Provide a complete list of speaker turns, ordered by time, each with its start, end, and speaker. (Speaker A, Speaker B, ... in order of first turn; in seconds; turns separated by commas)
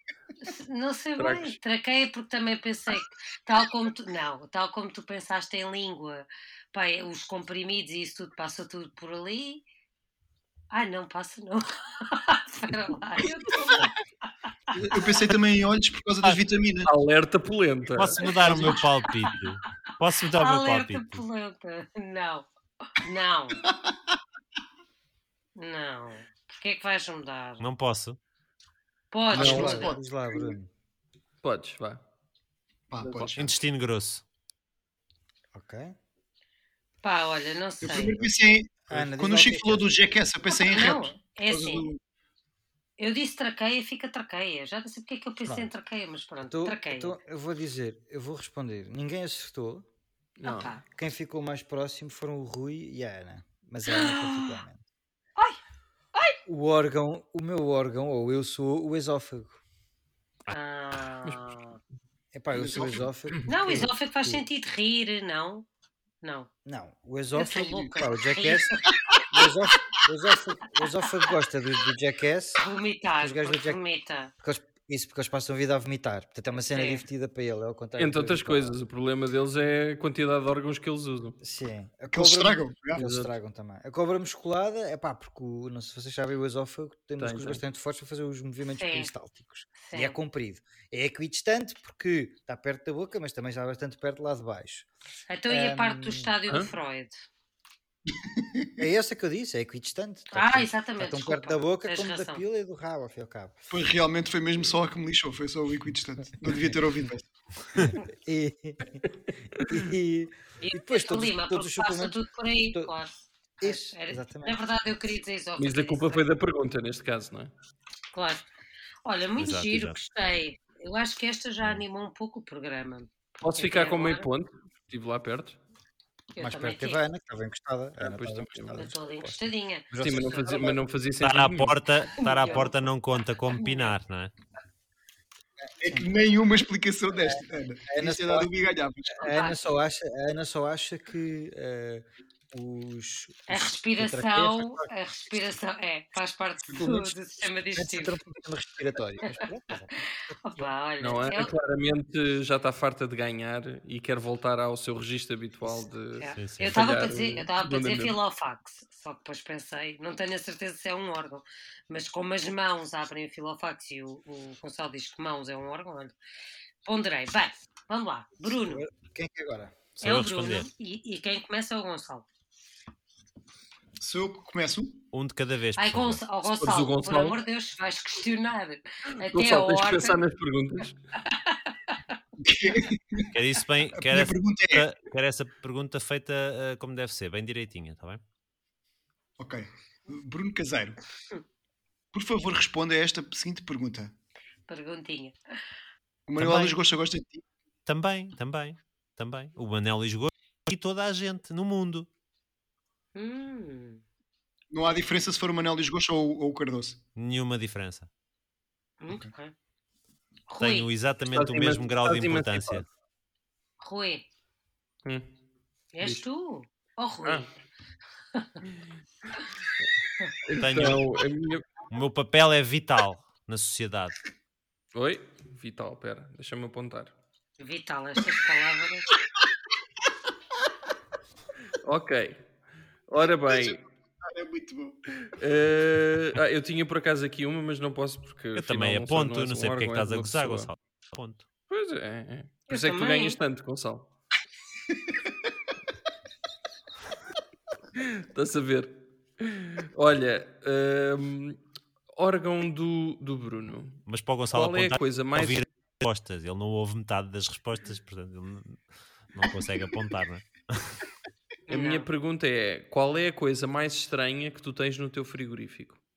Speaker A: 0.4-9.6, Speaker B: 1.2-1.6, Speaker A: 10.7-14.0, Speaker C: 14.7-16.9, Speaker A: 14.7-15.1, Speaker B: 16.9-18.2, Speaker D: 17.9-21.2, Speaker A: 18.3-19.4, Speaker C: 18.4-18.8, Speaker A: 20.3-23.6, Speaker C: 23.6-23.9, Speaker A: 25.6-27.6, Speaker D: 27.6-28.2, Speaker A: 29.1-29.9, Speaker C: 29.3-30.6, Speaker E: 29.3-30.7, Speaker B: 31.4-32.0, Speaker C: 32.9-33.5, Speaker B: 33.0-33.4, Speaker D: 33.4-34.2, Speaker E: 35.5-36.0, Speaker A: 37.0-38.2, Speaker C: 37.8-42.0, Speaker E: 38.9-39.9, Speaker A: 40.5-41.9, Speaker A: 43.0-47.2, Speaker E: 46.5-49.9, Speaker B: 50.4-50.7, Speaker A: 50.5-50.8, Speaker E: 51.0-54.8, Speaker A: 53.9-54.6, Speaker E: 56.5-59.6, Speaker A: 60.5-61.8, Speaker E: 62.3-64.4, Speaker C: 62.5-63.1, Speaker A: 63.5-65.7, Speaker A: 66.2-66.5, Speaker E: 66.7-72.6, Speaker A: 67.3-68.9, Speaker A: 72.6-74.3, Speaker E: 73.2-73.8, Speaker E: 74.4-78.8, Speaker A: 76.7-77.0, Speaker B: 78.0-81.4, Speaker E: 81.4-94.9, Speaker C: 82.1-83.0, Speaker B: 83.0-83.3, Speaker B: 87.2-87.6, Speaker A: 88.8-89.1, Speaker A: 89.8-90.2, Speaker A: 95.3-97.2, Speaker E: 95.5-96.3, Speaker C: 98.2-98.7, Speaker E: 98.8-103.6, Speaker A: 100.3-102.4, Speaker C: 103.7-107.3, Speaker E: 108.0-112.2, Speaker A: 110.6-113.1, Speaker E: 113.6-114.6, Speaker A: 113.6-116.3, Speaker B: 115.6-117.5, Speaker A: 118.1-118.5, Speaker A: 119.0-124.3, Speaker D: 119.4-120.0, Speaker B: 123.4-125.6, Speaker A: 126.4-127.0, Speaker E: 126.4-130.8, Speaker B: 128.0-128.9, Speaker A: 128.8-130.5, Speaker B: 130.0-131.8, Speaker D: 131.2-134.3, Speaker A: 132.1-132.8, Speaker A: 133.5-133.9, Speaker E: 135.6-136.1, Speaker C: 135.8-139.3, Speaker E: 137.2-138.5, Speaker E: 139.2-144.9, Speaker A: 139.2-139.6, Speaker A: 143.5-148.2, Speaker E: 146.7-147.1, Speaker E: 147.7-150.6, Speaker A: 150.0-151.5, Speaker B: 151.0-158.2, Speaker A: 156.2-166.1, Speaker D: 156.4-156.8, Speaker A: 166.8-168.8, Speaker E: 168.4-169.8, Speaker D: 170.0-170.7, Speaker A: 170.0-172.3, Speaker C: 174.0-175.1, Speaker D: 175.1-176.2, Speaker A: 175.8-180.2, Speaker B: 176.4-177.4, Speaker B: 179.2-181.0, Speaker A: 181.3-182.1, Speaker C: 182.4-183.3, Speaker D: 183.3-188.2, Speaker C: 183.9-184.9, Speaker C: 189.4-191.0, Speaker C: 192.1-194.1, Speaker A: 194.7-195.4, Speaker C: 196.3-197.4, Speaker D: 196.4-196.8, Speaker D: 197.9-202.1, Speaker A: 203.2-204.0, Speaker C: 204.7-207.0, Speaker D: 207.2-208.1, Speaker A: 209.0-209.5, Speaker A: 210.5-210.9, Speaker D: 210.6-212.8, Speaker B: 211.3-212.8, Speaker A: 213.8-214.2, Speaker A: 215.9-217.5, Speaker A: 218.3-218.6, Speaker B: 220.4-221.7, Speaker D: 220.6-221.0, Speaker D: 221.9-224.2, Speaker B: 224.9-227.1, Speaker A: 227.6-229.1, Speaker B: 231.8-232.4, Speaker B: 233.1-233.8, Speaker C: 233.5-235.0, Speaker B: 235.2-240.7, Speaker D: 238.6-241.4, Speaker B: 241.7-244.1, Speaker A: 242.7-243.4, Speaker B: 248.0-251.6, Speaker B: 252.2-255.7, Speaker D: 254.1-261.0, Speaker A: 261.7-262.1, Speaker B: 261.7-266.0